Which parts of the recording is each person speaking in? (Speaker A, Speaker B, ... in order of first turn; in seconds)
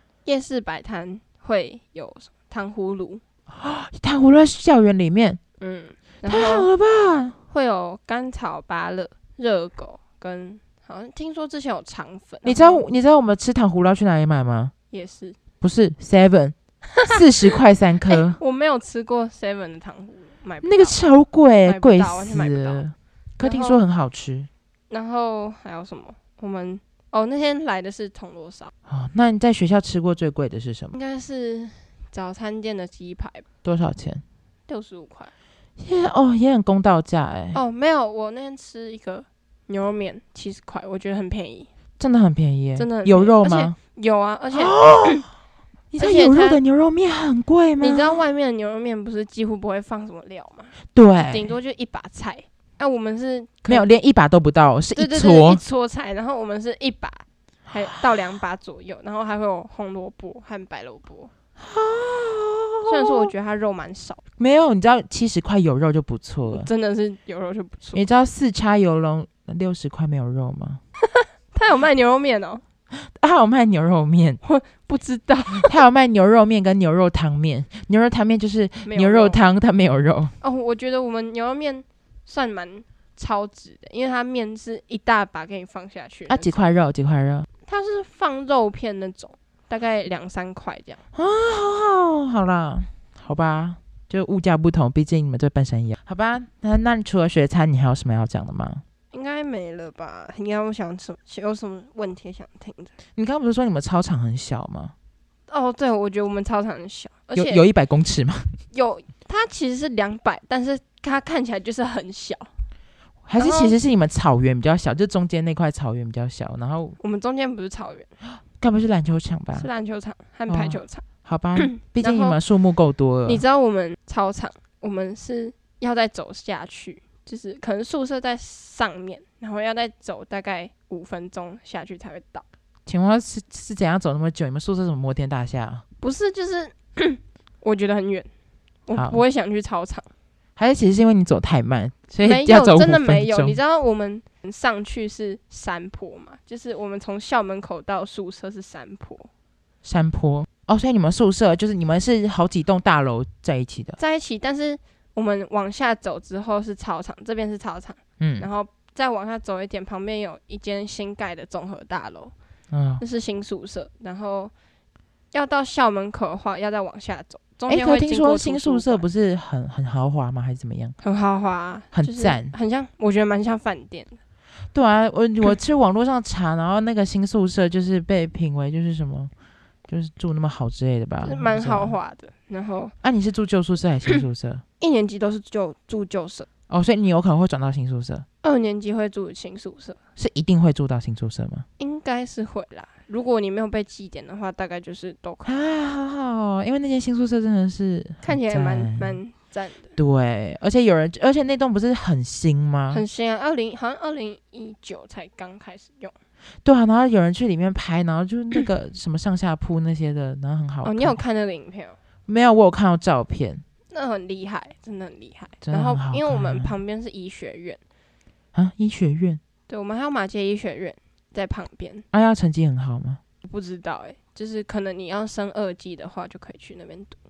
Speaker A: 0.3-3.2, 5.6-6.7, 7.5-12.9, 14.9-15.4, 16.9-17.2, 18.1-21.0, 21.6-22.9, 23.4-23.8, 24.9-28.7, 30.9-33.5, 34.7-35.3, 37.5-41.7, 42.8-45.2, 46.0-46.6, 47.8-50.8, 51.3-53.9, 55.0-61.3, 62.9-64.2, 66.5-68.0, 71.0-72.6, 74.4-75.7, 78.9-79.4, 80.4-86.5, 87.7-91.0, 99.1-102.9, 105.5-107.6, 108.7-112.5, 113.4-113.8, 117.0-118.1, 119.5-121.1, 121.6-122.4, 123.3-132.4, 136.0-138.3, 138.9-140.1, 142.2-149.3, 154.0-162.3, 163.0-164.5, 165.3-169.1, 171.0-174.2, 181.2-182.9, 184.8-186.5, 188.4-190.0, 191.8-195.5, 198.2-200.0, 202.9-206.2, 210.8-212.0, 213.9-217.8, 219.7-222.1, 223.4-227.2
Speaker B: 3.5-5.4, 6.3-7.4, 12.4-14.7, 15.6-18.4, 20.6-24.5, 28.9-30.9, 33.6-34.2, 35.8-37.6, 42.0-43.8, 44.5-45.3, 45.9-48.2, 50.9-51.5, 53.7-55.6, 61.6-63.3, 64.4-66.7, 67.9-70.8, 73.0-74.4, 75.5-80.3, 86.3-87.5, 91.1-98.8, 103.2-104.9, 107.3-108.6, 113.3-117.0, 118.6-119.7, 120.5-123.4, 132.9-135.8, 138.9-139.2, 140.6-143.6, 149.8-154.0, 158.2-158.5, 162.7-163.0, 167.7-171.0, 171.9-172.5, 174.7-179.3, 179.9-181.9, 183.0-184.6, 186.7-188.3, 190.2-191.7, 195.4-199.2, 200.0-203.0, 206.7-211.2, 212.3-213.6, 215.6-216.7, 218.6-219.4, 222.1-223.2